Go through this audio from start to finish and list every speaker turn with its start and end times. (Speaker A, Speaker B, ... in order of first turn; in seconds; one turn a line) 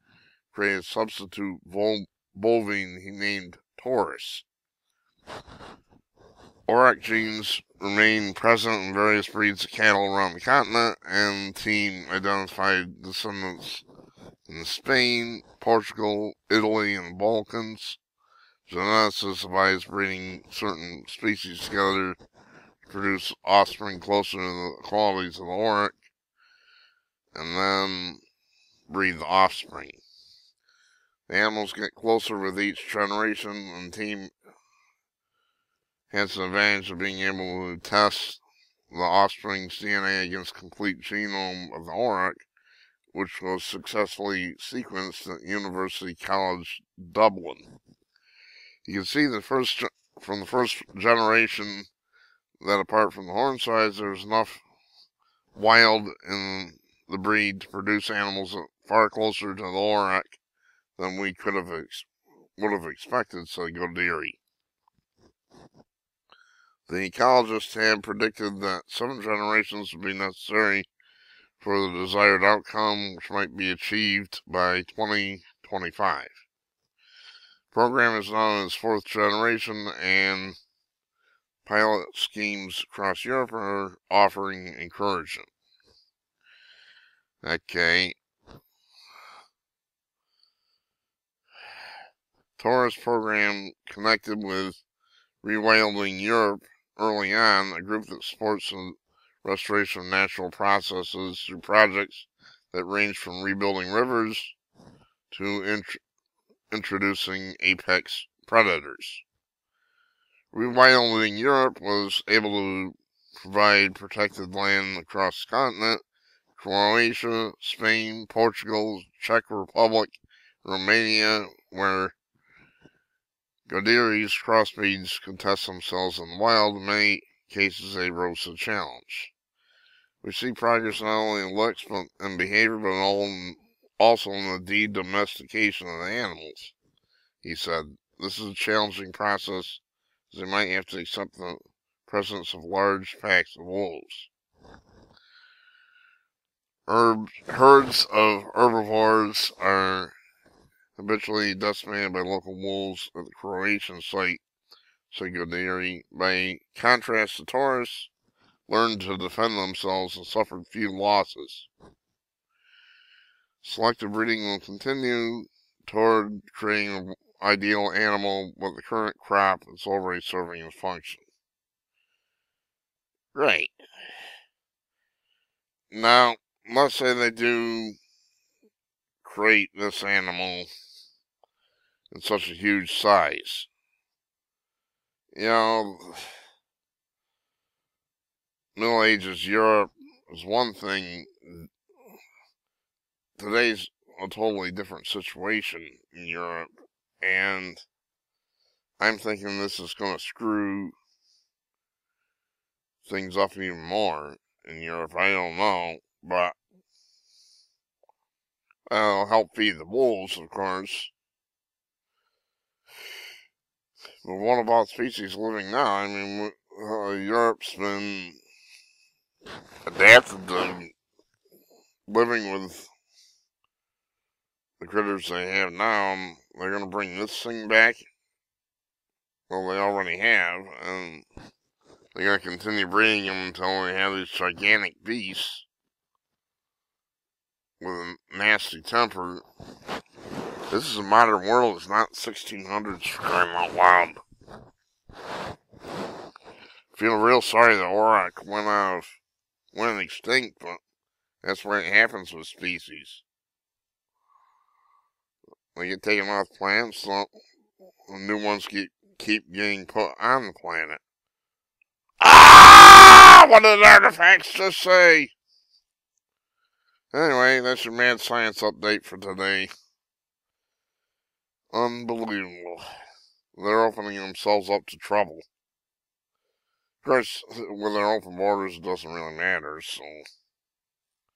Speaker A: 0.5-4.5
Speaker A: 6.7-13.8
Speaker A: 14.5-18.0
Speaker A: 18.7-22.2
Speaker A: 22.9-26.0
Speaker A: 27.3-28.2
Speaker A: 28.9-30.0
Speaker A: 31.3-34.3
Speaker A: 36.1-42.5
Speaker A: 43.1-47.7
Speaker A: 48.9-51.9
Speaker A: 52.6-54.6
Speaker A: 55.5-60.4
Speaker A: 61.0-64.4
Speaker A: 66.9-70.9
Speaker A: 71.6-76.3
Speaker A: 77.7-80.6
Speaker A: 81.7-85.5
Speaker A: 87.4-88.2
Speaker A: 92.6-94.8
Speaker A: 95.4-104.6
Speaker A: 105.3-106.0
Speaker A: 106.7-109.2
Speaker A: 110.5-116.0
Speaker A: 116.6-122.2
Speaker A: 123.7-129.3
Speaker A: 130.2-136.8
Speaker A: 137.4-144.3
Speaker A: 146.9-150.1
Speaker A: 151.0-154.4
Speaker A: 155.1-158.1
Speaker A: 158.7-161.7
Speaker A: 163.6-171.2
Speaker A: 173.3-173.8
Speaker A: 175.9-178.0
Speaker A: 179.2-180.7
Speaker A: 182.1-183.7
Speaker A: 185.3-186.4
Speaker A: 188.8-191.7
Speaker A: 193.4-196.7
Speaker A: 197.2-197.8
Speaker A: 199.0-201.0
Speaker A: 203.0-206.6
Speaker A: 208.9-211.1
Speaker A: 214.2-218.4
Speaker A: 219.8-220.9
Speaker A: 222.1-222.9
Speaker A: 224.8-228.1
Speaker A: 229.5-231.3
Speaker A: 232.1-235.7
Speaker A: 237.8-239.4
Speaker A: 240.7-244.2
Speaker A: 246.9-249.2
Speaker A: 249.7-250.8
Speaker A: 251.4-253.2
Speaker A: 255.8-257.3
Speaker A: 258.1-261.0
Speaker A: 262.2-265.3
Speaker A: 267.1-269.7
Speaker A: 271.7-272.9
Speaker A: 273.6-275.4
Speaker A: 277.0-280.2